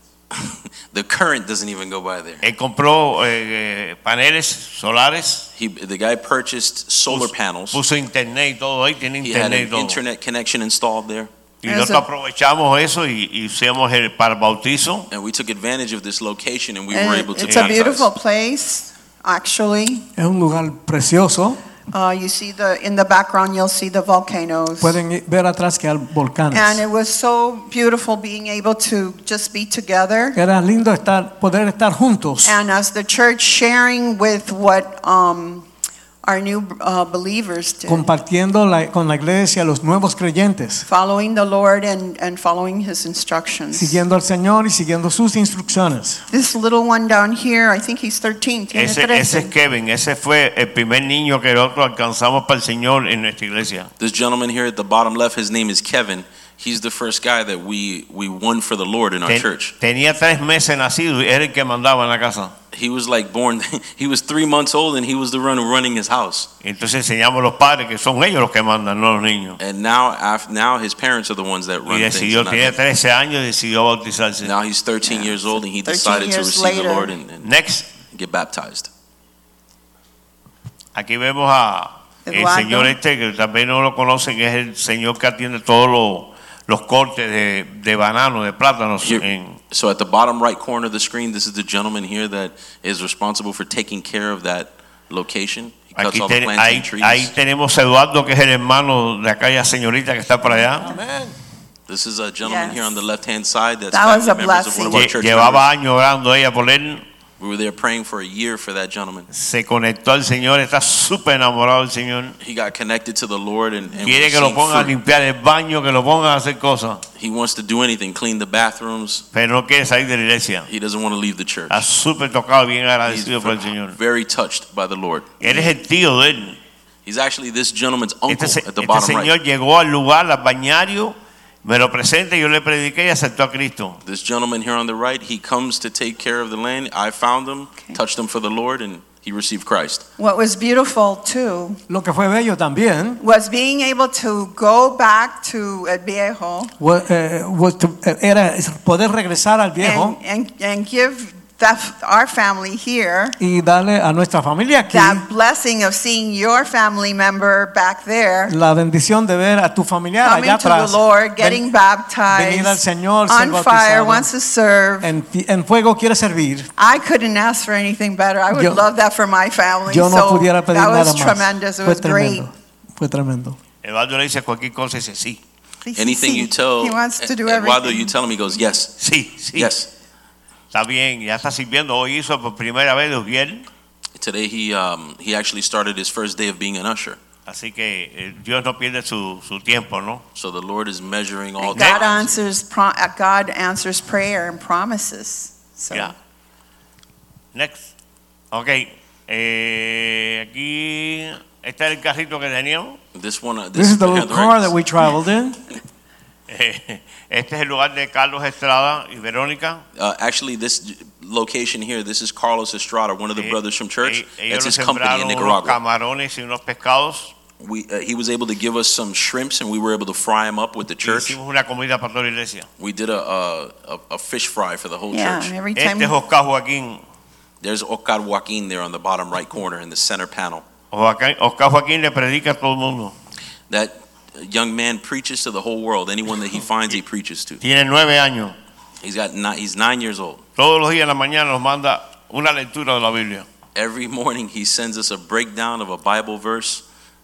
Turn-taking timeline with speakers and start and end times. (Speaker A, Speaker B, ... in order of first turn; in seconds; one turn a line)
Speaker A: 0.3-2.5
Speaker B: 2.4-5.5
Speaker A: 5.6-7.8
Speaker B: 7.1-10.0
Speaker A: 9.2-11.3
Speaker B: 11.6-15.1
Speaker C: 11.7-12.1
Speaker A: 15.1-18.1
Speaker C: 16.9-20.1
Speaker B: 17.5-17.8
Speaker D: 20.2-21.6
Speaker C: 21.9-25.0
Speaker D: 24.8-26.8
Speaker C: 26.5-30.4
Speaker D: 30.4-32.6
Speaker C: 32.4-35.7
Speaker C: 36.2-38.1
Speaker D: 37.9-40.9
Speaker C: 40.9-44.0
Speaker D: 43.7-46.2
Speaker C: 46.3-49.5
Speaker B: 48.7-53.9
Speaker A: 54.0-59.8
Speaker B: 59.3-62.5
Speaker A: 62.7-66.5
Speaker B: 66.6-69.6
Speaker A: 69.6-72.8
Speaker B: 71.9-74.5
Speaker A: 74.4-77.5
Speaker C: 75.1-77.2
Speaker B: 77.4-77.9
Speaker A: 78.0-78.9
Speaker B: 81.0-89.6
Speaker C: 82.3-83.0
Speaker A: 89.0-97.3
Speaker B: 96.0-100.9
Speaker D: 100.7-101.3
Speaker A: 101.9-105.7
Speaker C: 102.4-102.8
Speaker C: 103.9-105.1
Speaker B: 104.9-107.0
Speaker A: 107.4-109.3
Speaker B: 109.3-112.4
Speaker A: 112.4-115.0
Speaker B: 114.0-117.0
Speaker A: 117.2-119.2
Speaker B: 119.3-120.7
Speaker A: 120.7-121.9
Speaker B: 121.7-124.0
Speaker A: 123.1-125.4
Speaker B: 125.4-126.6
Speaker A: 127.0-129.3
Speaker B: 128.3-134.0
Speaker A: 134.1-140.1
Speaker C: 140.2-141.8
Speaker D: 141.9-143.2
Speaker C: 143.2-146.7
Speaker D: 146.8-150.2
Speaker C: 149.8-153.4
Speaker D: 153.4-155.2
Speaker C: 154.9-158.6
Speaker D: 158.5-161.6
Speaker C: 160.2-165.1
Speaker D: 162.3-164.3
Speaker D: 165.0-166.7
Speaker C: 166.8-172.5
Speaker D: 168.5-168.9
Speaker D: 169.9-173.6
Speaker B: 173.8-175.4
Speaker C: 175.8-178.1
Speaker A: 175.9-179.0
Speaker B: 179.0-179.7
Speaker A: 179.6-179.9
Speaker B: 180.7-183.7
Speaker A: 184.2-187.2
Speaker B: 187.5-190.2
Speaker A: 190.4-192.3
Speaker C: 191.6-196.1
Speaker B: 191.7-192.0
Speaker B: 197.5-197.9
Speaker B: 198.5-203.0
Speaker A: 203.1-204.7
Speaker D: 203.8-205.6
Speaker B: 206.5-209.8
Speaker A: 210.0-215.8
Speaker B: 213.4-217.3
Speaker A: 217.6-221.4
Speaker B: 221.0-222.7
Speaker A: 222.8-225.6
Speaker C: 225.1-226.2
Speaker B: 225.8-227.0
Speaker A: 227.6-230.7
Speaker B: 230.9-233.2
Speaker A: 233.7-237.6
Speaker B: 237.6-238.6
Speaker A: 239.0-240.4
Speaker B: 240.6-243.5
Speaker A: 243.8-246.8